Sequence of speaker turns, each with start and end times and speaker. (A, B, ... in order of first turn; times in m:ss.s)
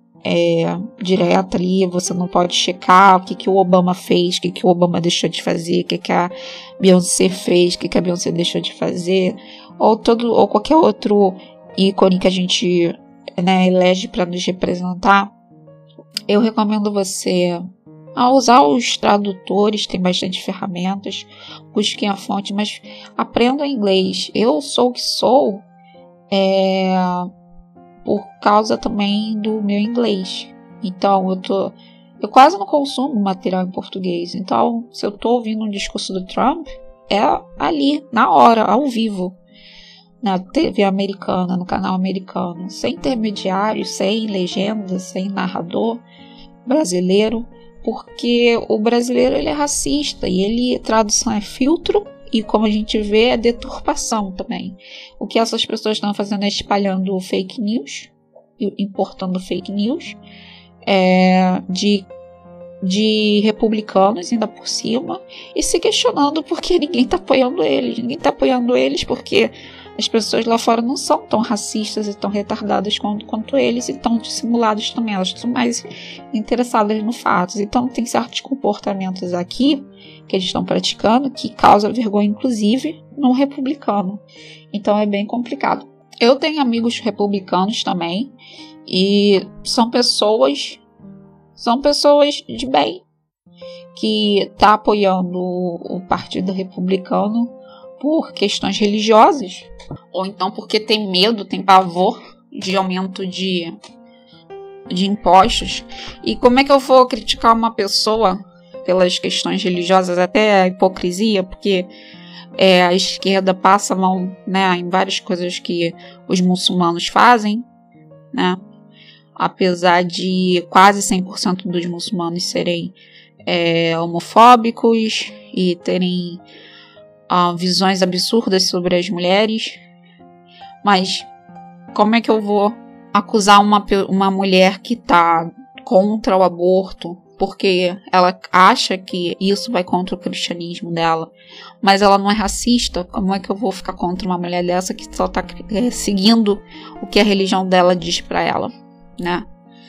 0:00.2-0:15.3 A
0:16.3-0:25.6 A
0:26.3-0:27.3 A
0:28.0-0:39.4 A
0:40.2-0:46.0 A
0:46.7-1:00.2 A
1:00.9-1:02.1 A
1:02.8-1:24.2 A
1:24.7-1:28.3 A
1:28.9-1:30.8 A
1:31.6-1:33.0 A
1:34.0-1:43.8 A
1:44.9-1:51.9 A
1:52.6-1:57.7 A
1:58.3-1:58.6 A
1:59.4-2:03.0 A
2:03.5-2:06.4 A
2:07.3-2:09.8 A
2:10.8-2:11.3 A
2:11.9-2:29.5 A